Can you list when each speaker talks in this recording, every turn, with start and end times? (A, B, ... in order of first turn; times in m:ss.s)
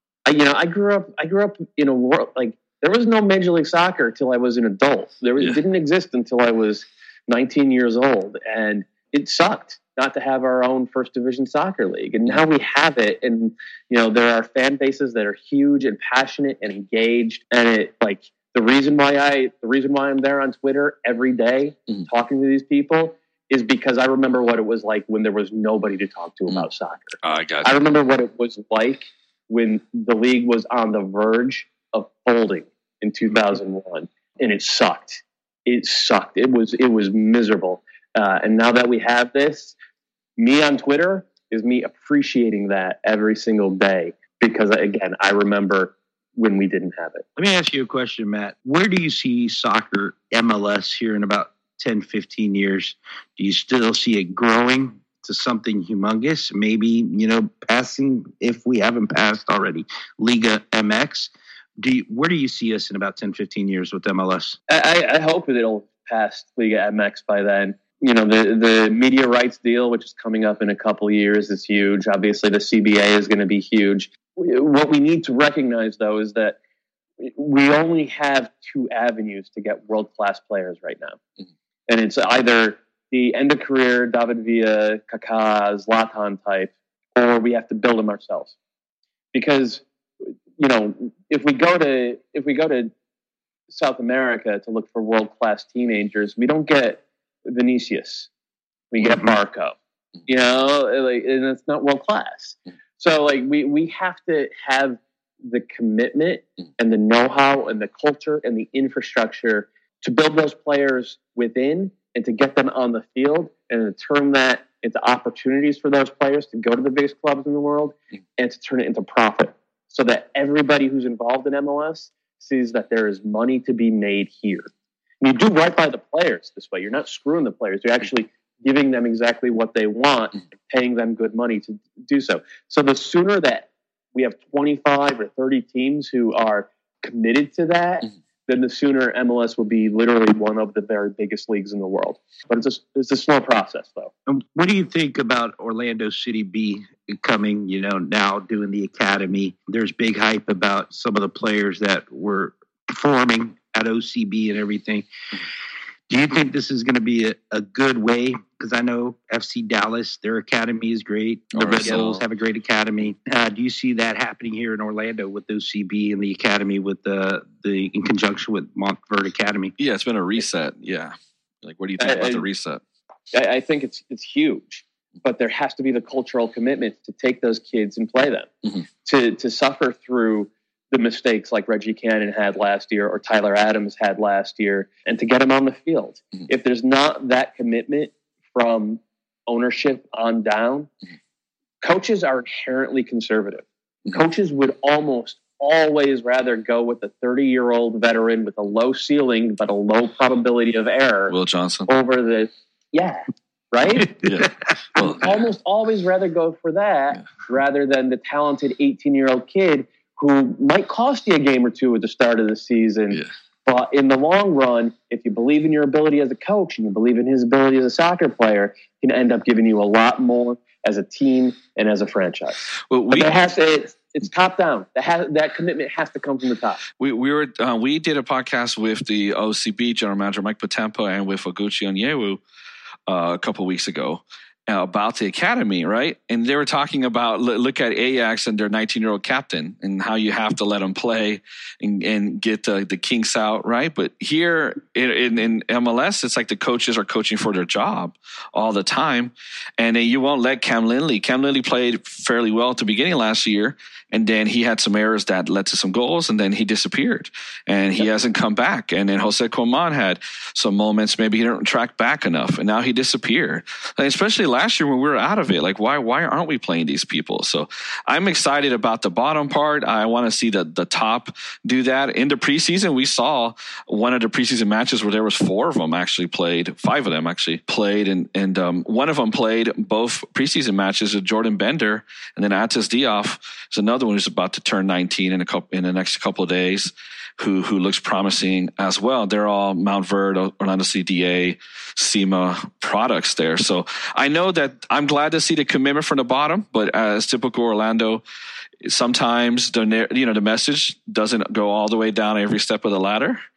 0:00.2-0:39.8 A
0:27.2-0:27.7 B
0:40.4-0:47.2 A
0:47.4-1:04.6 C
1:04.7-1:16.6 A
1:17.2-1:21.2 A
1:21.9-1:28.5 A
1:29.3-1:29.8 A
1:30.6-1:32.9 A
1:33.7-1:38.3 A
1:38.9-1:39.8 A
1:39.0-1:39.3 C
1:40.3-2:04.7 A
2:05.2-2:24.1 A
2:24.3-2:35.1 C
2:36.1-2:49.7 C
2:41.6-2:42.2 B
2:49.8-2:52.8 B
2:52.0-2:52.4 A
2:53.3-2:58.5 A
2:59.0-3:10.9 A
3:11.8-3:21.3 A
3:21.3-3:21.9 B
3:21.9-3:24.2 A
3:24.2-3:25.4 B
3:25.0-3:46.8 A
3:42.9-3:43.3 B
3:47.0-3:52.4 B
3:53.1-4:58.2 B
4:58.8-5:03.4 B